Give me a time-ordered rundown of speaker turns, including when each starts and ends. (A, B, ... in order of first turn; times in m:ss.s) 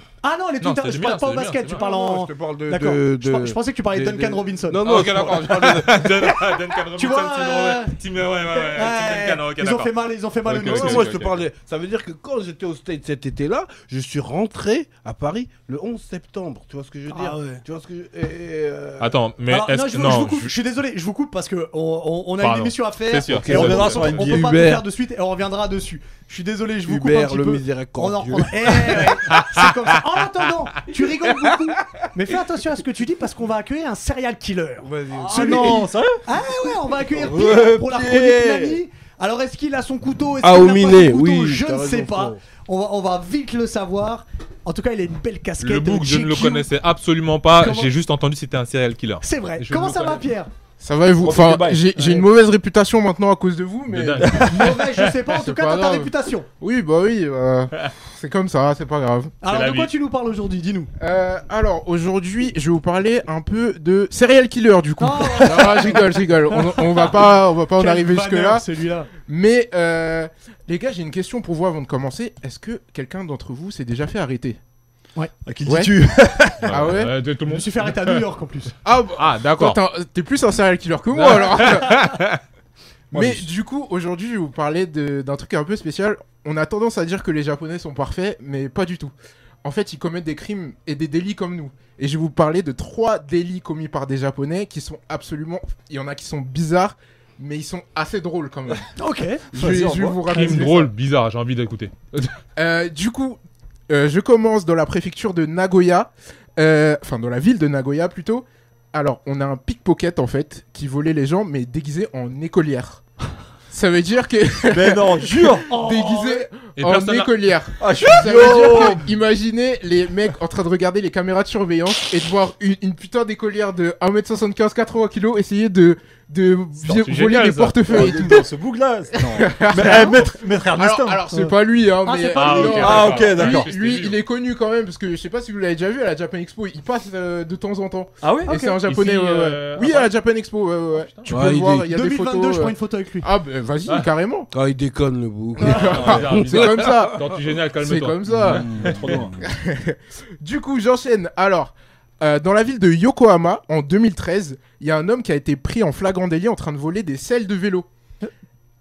0:00.2-0:05.3 A
0:00.6-0:01.8 B
0:01.7-0:06.2 C
0:04.8-0:09.9 B
0:07.0-0:08.0 A
0:08.5-0:11.1 A
0:10.5-0:11.4 B
0:10.6-0:19.1 C
0:17.1-0:17.6 A
0:19.0-0:20.5 B
0:19.5-0:46.7 A
0:22.4-0:24.2 B
0:23.3-0:24.6 D
0:23.3-0:24.8 C
0:26.8-0:29.2 C
0:29.3-0:29.7 B
0:34.8-0:35.8 C
0:35.1-0:36.2 D
0:37.0-0:38.8 D
0:40.4-0:42.4 C
0:45.6-0:50.2 B
0:47.5-0:47.9 A
0:49.2-0:50.5 A
0:50.8-0:59.4 E
0:51.2-0:51.9 D
0:52.0-0:52.2 A
0:53.9-0:55.1 B
0:54.4-0:56.5 A
0:59.4-1:00.9 A
0:59.5-0:59.9 B
1:01.0-1:08.6 E
1:05.0-1:09.1 A
1:09.2-1:14.6 E
1:15.4-1:16.9 D
1:15.7-1:15.9 E
1:16.6-1:18.2 B
1:16.6-1:17.1 E
1:17.5-1:18.7 A
1:18.8-1:22.2 E
1:19.2-1:19.8 B
1:21.1-1:22.4 B
1:23.1-1:23.5 D
1:23.1-1:38.9 E
1:39.0-1:39.4 A
1:39.5-1:40.9 E
1:39.5-1:40.7 D
1:40.3-1:42.4 B
1:40.3-1:40.6 A
1:42.6-1:53.0 E
1:53.7-2:08.5 E
1:54.7-1:55.7 D
1:55.7-1:56.5 A
1:56.8-1:57.4 B
1:57.8-1:59.1 D
2:06.8-2:07.8 B
2:07.8-2:11.2 D
2:09.2-2:24.5 E
2:09.8-2:10.1 A
2:11.3-2:13.2 A
2:12.3-2:14.2 B
2:12.7-2:13.7 D
2:18.2-2:18.6 D
2:18.5-2:18.8 A
2:18.8-2:20.1 B
2:20.9-2:21.3 B
2:21.3-2:21.9 C
2:21.9-2:23.3 A
2:24.5-2:27.1 C
2:25.6-2:37.9 E
2:25.7-2:26.4 D
2:25.7-2:28.9 B
2:28.3-2:29.5 D
2:28.8-2:29.1 C